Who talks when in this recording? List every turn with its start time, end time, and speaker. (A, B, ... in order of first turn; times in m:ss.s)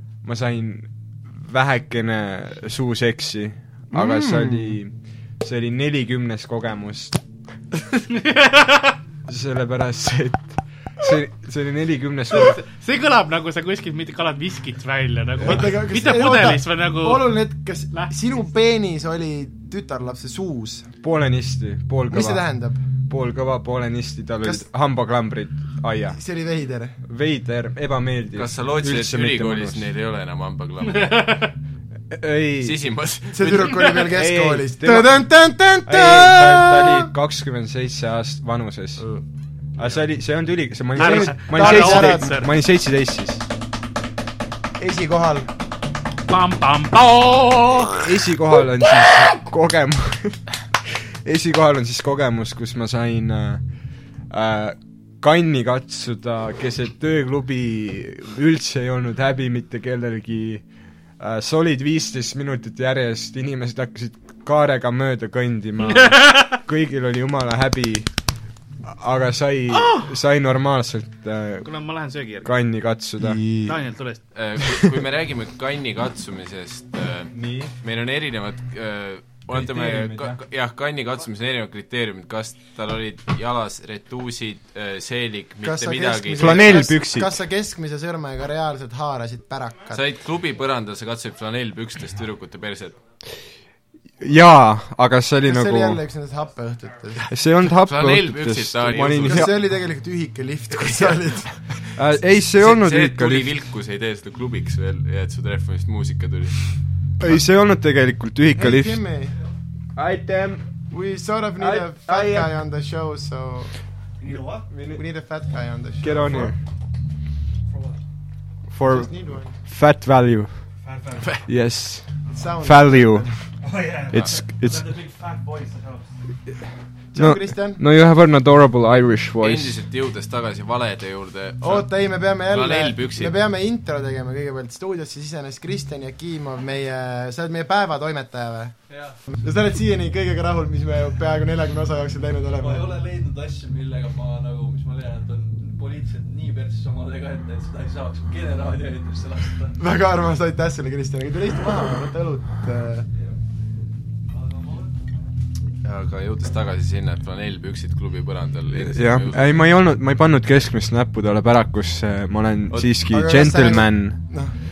0:00.2-0:07.2 A
0:03.9-0:04.8 B
0:08.1-0:09.0 C
0:09.3-0:12.6 A
0:12.3-0:17.3 C
0:15.4-0:20.9 B
0:21.0-0:22.4 A
0:22.1-0:22.8 B
0:23.1-0:26.2 A
0:26.1-0:27.0 B
0:27.0-0:29.9 A
0:28.3-0:31.4 D
0:30.9-0:31.5 C
0:32.1-0:32.8 A
0:32.6-0:34.0 D
0:33.3-0:37.1 B
0:33.4-0:35.2 A
0:35.8-0:39.1 A
0:39.0-0:39.2 B
0:39.8-0:43.4 A
0:40.9-0:42.4 B
0:41.0-0:42.5 C
0:44.8-0:45.5 B
0:46.3-0:48.0 C
0:48.0-0:53.6 A
0:54.3-1:00.6 A
1:01.2-1:08.1 A
1:05.9-1:06.6 C
1:08.8-1:11.7 A
1:11.6-1:12.5 C
1:12.4-1:13.8 A
1:13.6-1:14.2 C
1:14.3-1:26.9 D
1:17.3-1:17.7 A
1:19.5-1:20.4 A
1:25.6-1:30.0 B
1:26.4-1:27.4 A
1:29.9-1:33.0 D
1:34.2-1:36.0 A
1:35.4-1:37.3 B
1:37.3-1:39.5 A
1:37.6-1:39.5 D
1:39.2-1:41.7 B
1:40.8-1:41.2 D
1:41.9-1:43.5 A
1:42.5-1:46.7 D
1:47.2-1:49.0 A
1:48.5-1:49.4 B
1:49.9-1:50.7 A
1:50.9-1:53.7 B
1:51.6-1:52.5 A
1:54.2-1:54.6 E
1:54.3-1:55.0 A
1:54.9-1:56.5 B
1:56.0-1:56.6 A
1:57.7-1:58.0 E
1:58.7-2:00.6 A
1:58.8-1:59.6 B
2:00.9-2:01.2 E
2:01.4-2:03.3 A
2:02.3-2:03.4 B
2:03.6-2:06.1 E
2:04.1-2:05.0 A
2:07.1-2:07.8 B
2:07.1-2:09.8 A
2:09.4-2:13.4 D
2:11.6-2:18.8 B
2:18.9-2:19.2 E
2:19.3-2:23.0 B
2:22.6-2:29.8 E
2:29.8-2:33.1 B
2:34.3-2:35.0 E
2:35.8-2:39.6 D
2:38.7-2:44.2 A
2:42.7-2:42.9 D
2:43.0-2:44.5 B